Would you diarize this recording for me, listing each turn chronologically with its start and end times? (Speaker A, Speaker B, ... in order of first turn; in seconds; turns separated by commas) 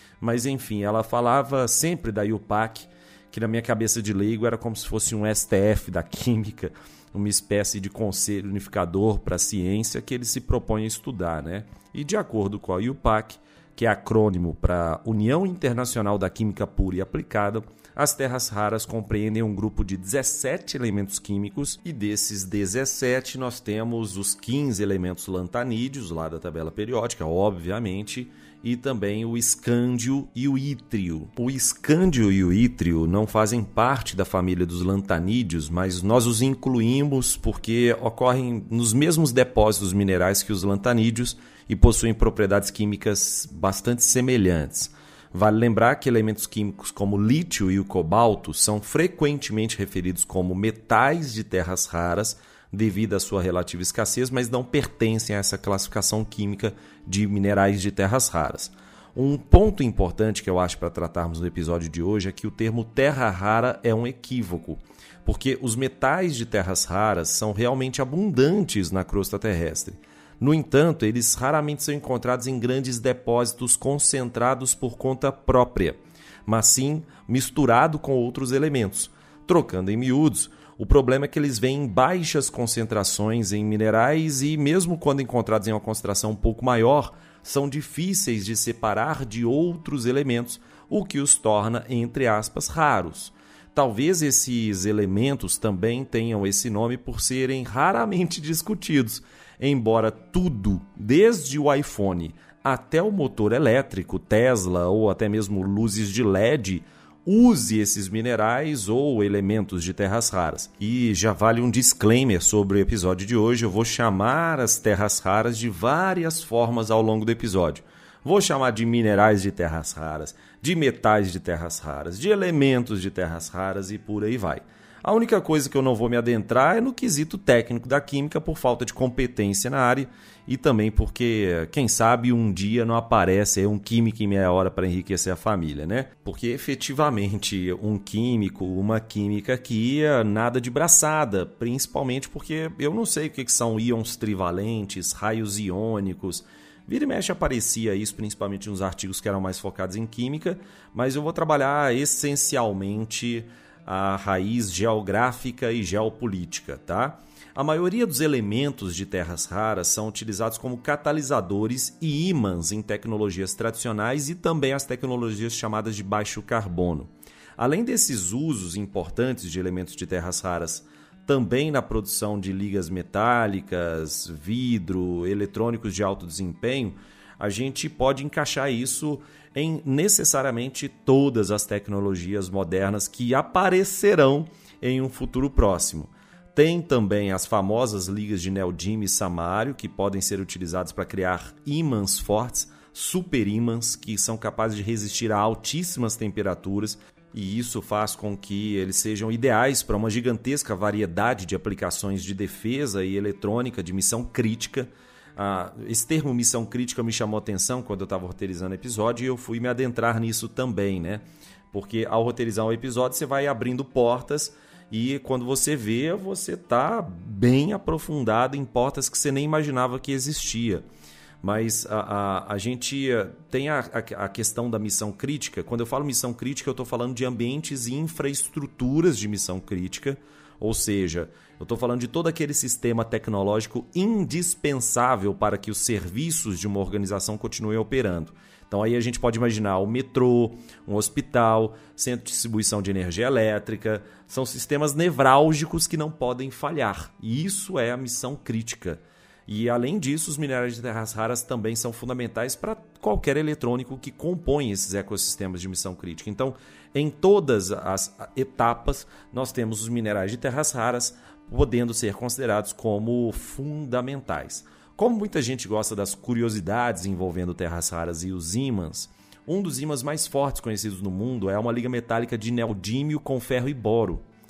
Speaker A: 0.2-220.8, Speaker A: 221.4-274.2